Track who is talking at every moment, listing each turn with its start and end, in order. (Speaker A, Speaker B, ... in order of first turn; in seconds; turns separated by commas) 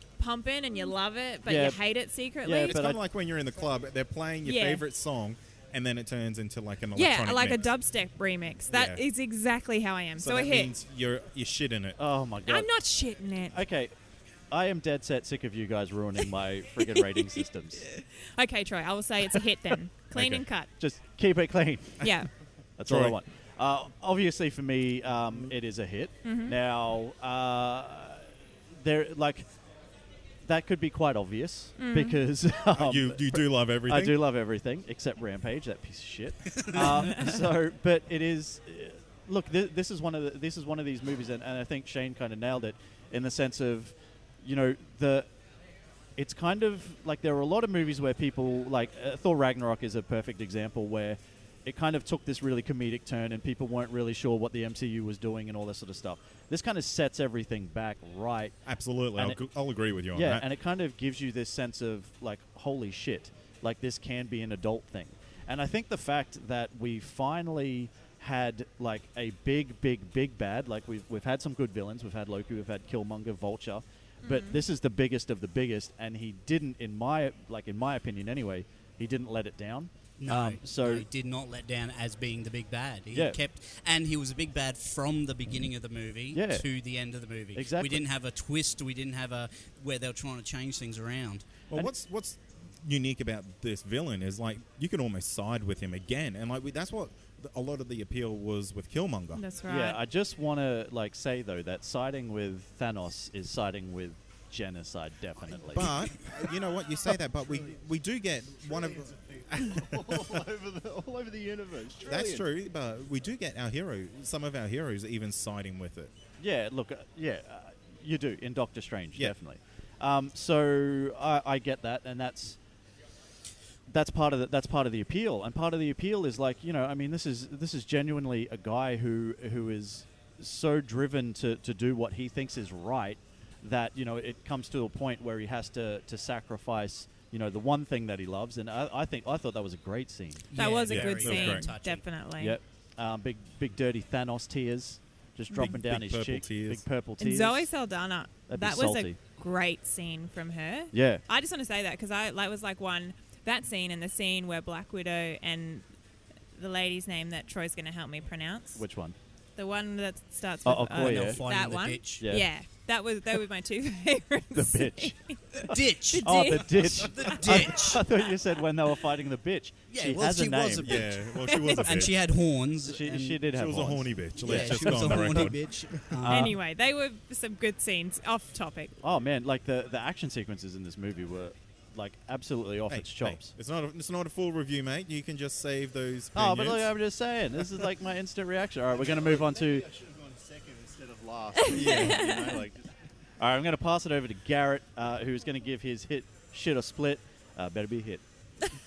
Speaker A: 0.2-2.8, Speaker B: 1.5-1.8, Speaker B: 2.4-3.0, Speaker C: 2.6-7.7, Speaker A: 4.4-4.8, Speaker A: 7.0-10.7, Speaker C: 8.7-9.0, Speaker C: 10.2-12.0, Speaker B: 12.0-12.7, Speaker A: 12.5-13.6, Speaker B: 13.5-13.9, Speaker B: 14.5-17.9, Speaker A: 17.9-20.7, Speaker C: 20.1-20.4, Speaker B: 20.8-22.2, Speaker A: 22.0-22.4, Speaker B: 22.8-29.6, Speaker C: 22.9-23.2, Speaker A: 26.2-26.6, Speaker B: 30.4-45.4, Speaker A: 31.8-32.2, Speaker C: 32.7-34.2, Speaker A: 36.8-37.3, Speaker B: 46.1-58.6, Speaker C: 58.6-60.5, Speaker B: 59.1-59.4, Speaker B: 60.1-81.1, Speaker A: 74.2-74.6, Speaker D: 80.2-91.5, Speaker B: 83.1-83.4, Speaker B: 86.3-86.7, Speaker B: 87.5-88.0, Speaker C: 91.7-99.4, Speaker A: 99.3-100.0, Speaker B: 99.7-105.9, Speaker C: 105.7-110.4, Speaker E: 108.8-112.5, Speaker C: 112.0-116.1, Speaker B: 116.4-122.6, Speaker B: 123.9-140.5, Speaker D: 140.5-142.1, Speaker A: 140.6-142.6, Speaker C: 140.9-141.7, Speaker B: 142.4-147.7, Speaker C: 145.6-146.8, Speaker A: 147.2-155.9, Speaker B: 148.5-149.2, Speaker B: 150.9-151.2, Speaker A: 156.5-158.8, Speaker B: 158.8-159.2, Speaker A: 159.6-167.4, Speaker B: 160.7-161.4, Speaker D: 160.9-162.3, Speaker B: 162.2-162.5, Speaker B: 164.5-171.0, Speaker D: 165.6-168.0, Speaker D: 169.9-173.5, Speaker C: 170.8-172.3, Speaker A: 171.3-172.1, Speaker B: 172.8-175.6, Speaker C: 173.5-176.1, Speaker D: 174.4-176.6, Speaker B: 176.2-176.6, Speaker A: 176.3-179.0, Speaker B: 179.0-183.5, Speaker C: 182.9-186.9, Speaker B: 186.3-189.9, Speaker E: 189.1-193.1, Speaker A: 191.6-192.6, Speaker C: 191.7-192.2, Speaker B: 193.4-198.2